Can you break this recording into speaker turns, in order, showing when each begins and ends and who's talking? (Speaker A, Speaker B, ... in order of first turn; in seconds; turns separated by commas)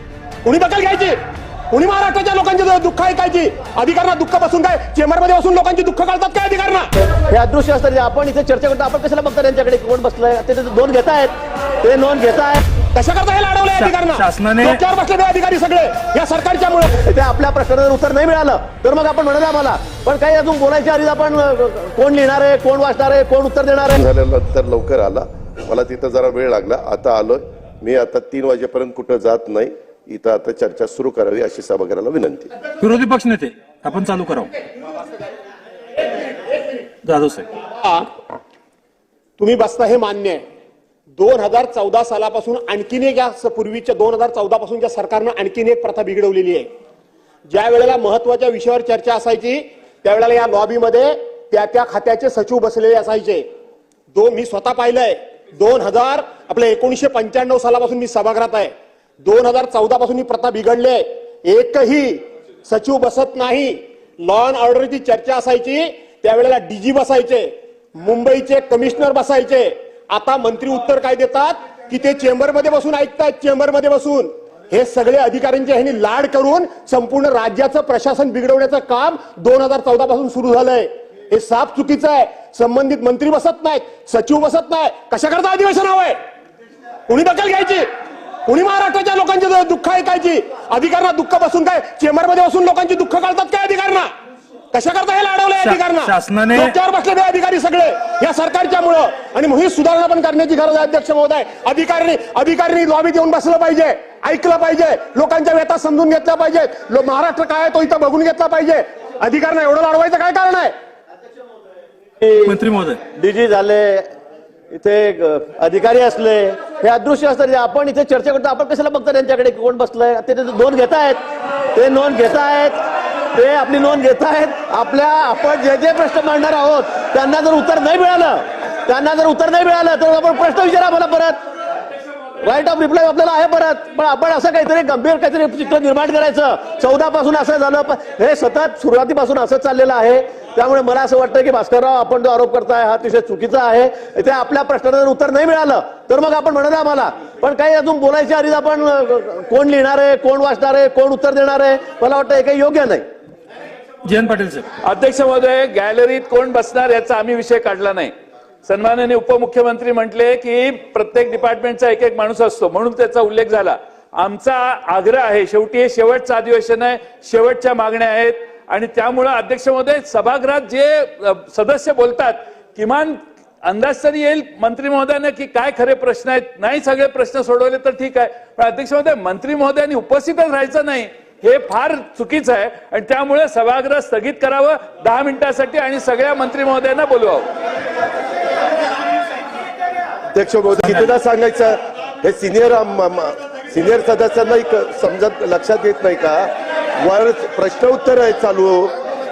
Speaker A: 0.5-1.2, Speaker A: 1.7-6.9, Speaker B: 7.2-12.6, Speaker A: 12.9-16.9, Speaker C: 13.7-14.8, Speaker B: 17.0-24.0, Speaker D: 24.0-32.5, Speaker C: 32.8-34.5, Speaker C: 37.0-37.5, Speaker A: 37.7-38.1, Speaker A: 39.4-40.4, Speaker A: 41.2-46.7, Speaker A: 47.5-53.5, Speaker A: 54.1-86.2, Speaker A: 87.1-87.9, Speaker A: 88.5-94.1, Speaker A: 94.7-110.7, Speaker C: 95.6-96.8, Speaker B: 112.2-112.6, Speaker C: 112.4-113.0, Speaker B: 113.1-114.1, Speaker B: 114.7-121.2, Speaker B: 121.8-122.8, Speaker B: 123.3-131.4, Speaker B: 132.4-153.1, Speaker C: 154.1-154.7, Speaker E: 154.8-158.1, Speaker E: 158.7-187.4, Speaker D: 190.3-198.9